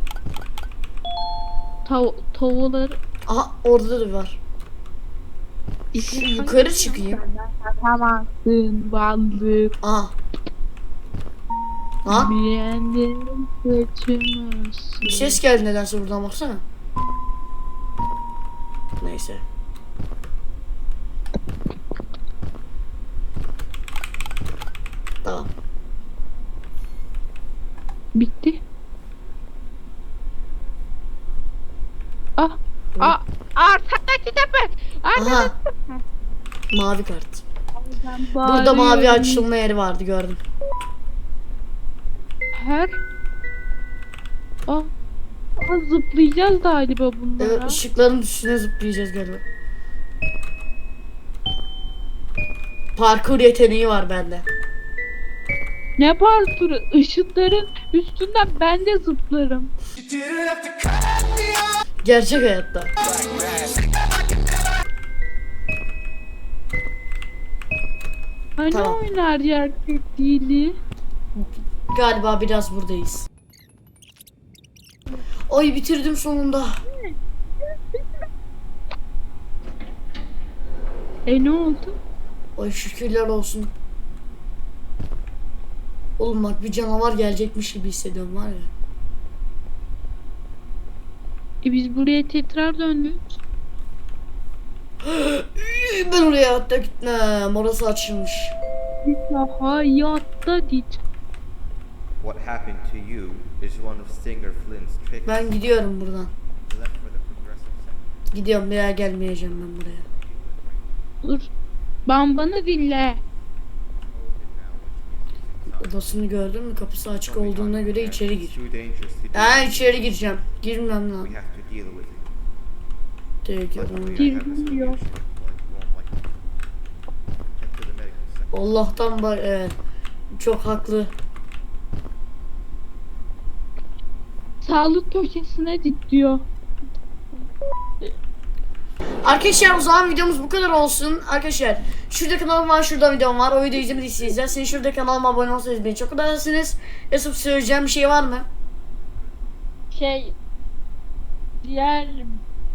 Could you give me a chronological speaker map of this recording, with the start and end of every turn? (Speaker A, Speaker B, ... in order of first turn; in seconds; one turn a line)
Speaker A: 1.9-3.0
Speaker B: 3.3-4.4
Speaker A: 5.9-9.8
Speaker B: 6.0-7.2
Speaker B: 9.8-10.2
Speaker B: 12.1-12.4
Speaker A: 12.1-15.4
Speaker B: 15.0-16.6
Speaker B: 19.0-19.4
Speaker B: 25.2-25.5
Speaker A: 28.1-28.6
Speaker A: 32.4-36.0
Speaker B: 35.2-35.5
Speaker B: 36.7-37.5
Speaker A: 37.8-39.5
Speaker B: 38.4-40.4
Speaker A: 42.5-42.9
Speaker A: 45.6-47.8
Speaker B: 47.4-49.4
Speaker B: 53.0-54.5
Speaker A: 56.0-59.7
Speaker B: 62.0-62.9
Speaker A: 68.6-70.7
Speaker B: 68.7-69.0
Speaker B: 71.4-73.3
Speaker B: 75.5-76.8
Speaker A: 81.3-82.0
Speaker B: 82.6-83.7
Speaker B: 86.2-88.7
Speaker A: 91.6-93.2
Speaker B: 95.0-98.5
Speaker A: 99.0-101.0
Speaker C: 102.2-105.6
Speaker B: 105.3-106.3
Speaker C: 106.6-111.0
Speaker B: 108.3-110.0
Speaker A: 112.1-113.2
Speaker C: 114.0-116.5
Speaker B: 115.8-118.6
Speaker C: 117.0-120.2
Speaker B: 119.3-121.4
Speaker C: 121.2-122.4
Speaker B: 123.5-124.4
Speaker C: 123.7-126.4
Speaker A: 124.2-125.0
Speaker C: 127.5-128.8
Speaker B: 128.5-129.7
Speaker B: 130.4-131.1
Speaker A: 134.6-136.4
Speaker B: 139.2-148.5
Speaker A: 149.9-150.3
Speaker A: 151.6-152.3